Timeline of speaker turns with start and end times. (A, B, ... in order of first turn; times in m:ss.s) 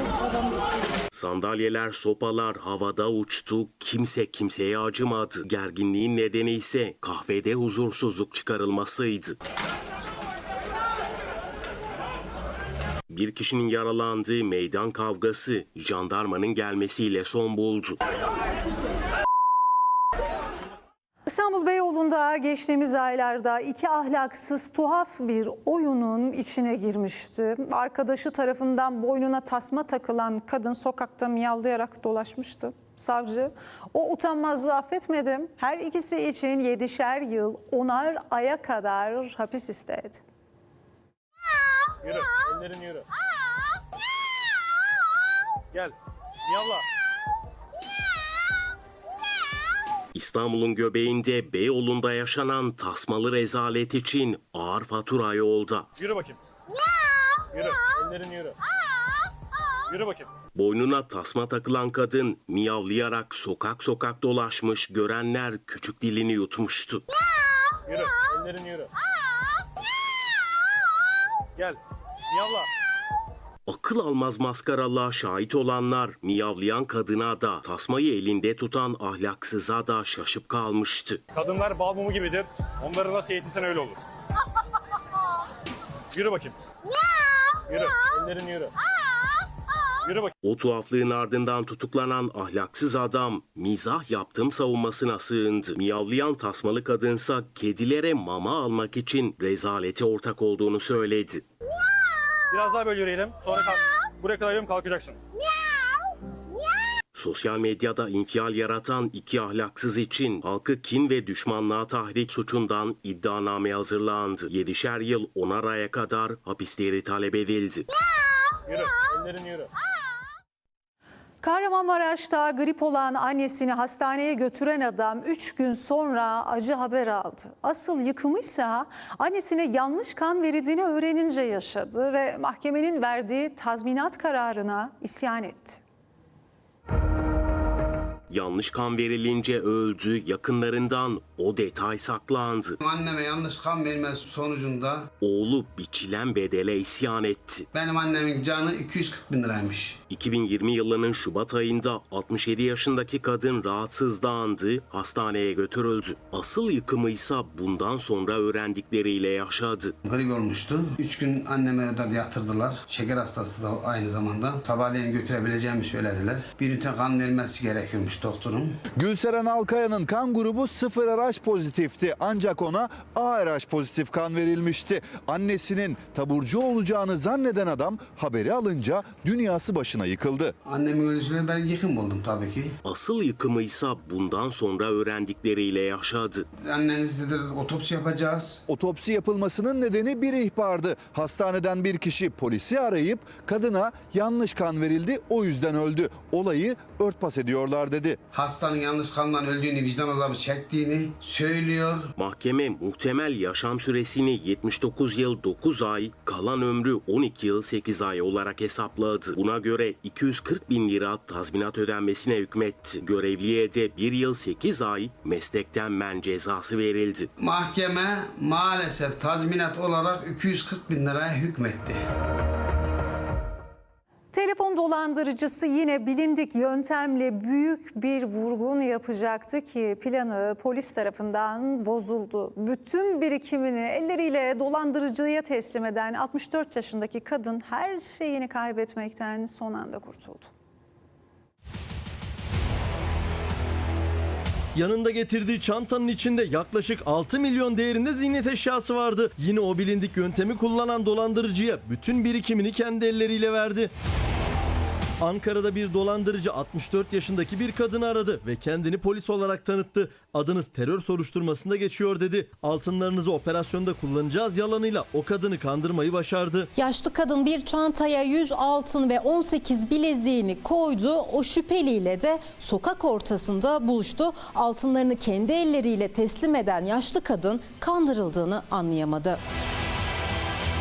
0:01.1-0:09.4 A
0:13.1-0:18.0 A
0:21.3-0:40.2 B
0:42.0-0:43.0 C
0:46.5-0:46.8 C
0:50.1-0:55.9 A
0:56.0-0:56.3 C
0:57.5-0:58.5 C
0:59.9-1:00.3 C
1:00.5-1:07.0 A
1:07.9-1:08.9 C
1:12.3-1:12.6 C
1:13.6-1:21.2 A
1:21.4-1:23.9 C
1:26.2-1:26.5 C
1:27.7-1:28.7 C
1:30.4-1:41.4 A
1:42.5-1:45.1 C
1:47.1-1:57.8 A
1:58.7-1:59.7 C
2:01.4-2:15.8 B
2:18.3-2:22.8 A
2:22.8-2:25.1 D
2:25.2-2:27.6 A
2:27.7-2:30.0 D
2:30.1-2:39.9 A
2:40.0-2:48.7 D
2:49.0-3:00.5 E
3:00.7-3:02.7 D
3:02.8-3:06.4 A
3:06.6-3:08.6 D
3:08.7-3:18.2 E
3:18.3-3:22.1 D
3:22.2-3:37.3 A
3:37.4-3:42.0 D
3:44.3-4:00.5 B
4:04.7-4:13.9 F
4:15.2-4:26.7 F
4:26.8-4:39.4 G